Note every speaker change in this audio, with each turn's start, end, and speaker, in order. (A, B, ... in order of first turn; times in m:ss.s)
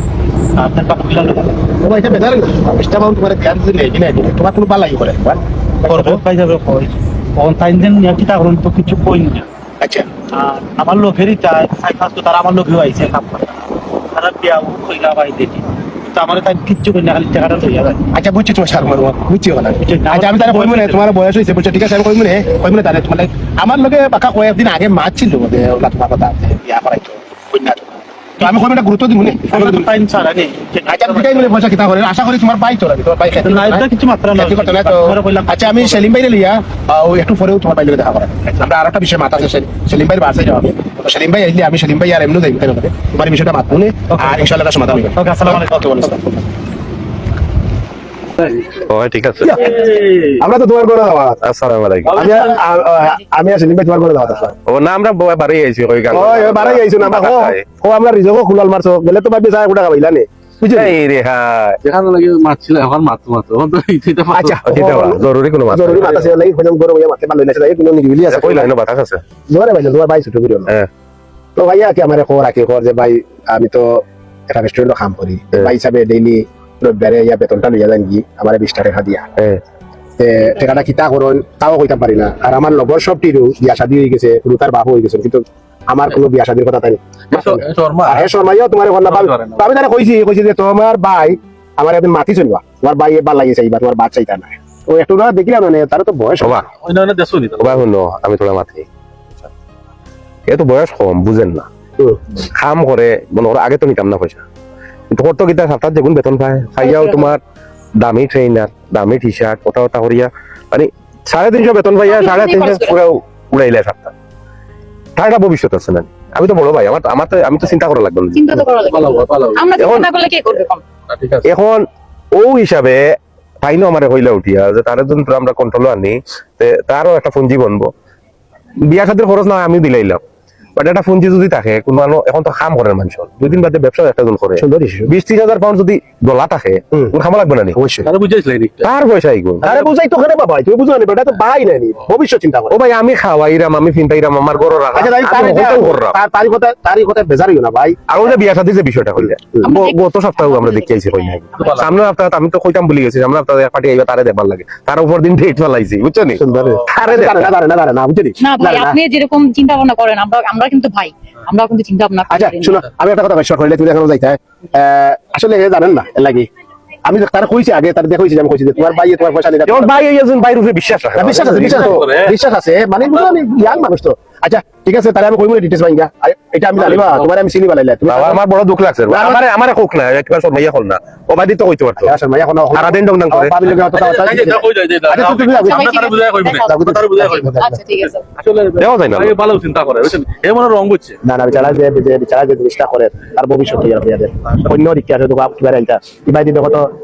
0:00.5-0:01.6 A
0:01.8-0:06.2 B
0:05.8-0:09.5 A
0:09.8-0:10.1 B
0:10.3-0:18.0 A
0:18.1-0:29.9 B
0:19.8-0:21.0 A
0:29.5-0:31.6 A
0:30.9-0:46.4 B
0:33.4-0:36.1 A
0:44.1-0:44.5 A
0:45.0-0:46.2 A
0:48.7-0:49.7 C
0:49.4-0:51.4 B
0:49.7-0:50.4 D
0:51.4-0:52.2 C
0:52.0-0:52.6 D
0:52.2-0:54.5 B
0:54.6-0:57.6 C
0:56.1-1:00.9 B
1:00.7-1:01.8 C
1:01.8-1:04.6 D
1:04.3-1:08.7 B
1:04.6-1:06.2 C
1:08.3-1:09.2 C
1:09.5-1:10.7 B
1:11.6-1:19.3 B
1:20.2-1:36.7 B
1:27.3-1:28.4 D
1:29.0-1:29.7 D
1:36.4-1:36.6 C
1:36.8-1:37.8 D
1:37.6-1:38.9 C
1:40.5-1:41.7 C
1:42.4-1:44.4 C
1:45.1-1:47.4 C
1:46.8-1:47.3 E
1:48.0-1:54.1 C
1:52.0-1:53.0 E
1:55.2-1:58.6 C
1:58.3-2:00.8 E
1:58.9-1:59.7 D
1:59.8-2:00.1 C
2:01.1-2:01.5 D
2:01.4-2:07.9 C
2:08.8-2:10.2 C
2:10.8-2:17.8 C
2:14.6-2:15.1 B
2:17.7-2:18.1 B
2:18.0-2:18.9 D
2:18.8-2:19.8 C
2:19.6-2:22.7 B
2:22.7-2:26.2 C
2:24.9-2:28.0 B
2:28.1-2:37.5 C
2:29.6-2:31.8 E
2:31.6-2:31.9 D
2:36.4-2:39.0 B
2:38.4-2:42.8 E
2:42.3-2:46.5 B
2:47.0-2:50.0 B
2:49.6-2:52.0 C
2:51.1-2:58.4 B
2:51.3-2:52.3 D
2:56.8-2:57.3 D
2:58.1-3:02.1 C
2:59.1-2:59.4 B
3:02.0-3:07.8 B
3:02.7-3:03.5 C
3:03.7-3:07.4 D
3:05.7-3:08.2 E
3:07.9-3:11.2 D
3:08.8-3:09.4 C
3:11.2-3:16.9 B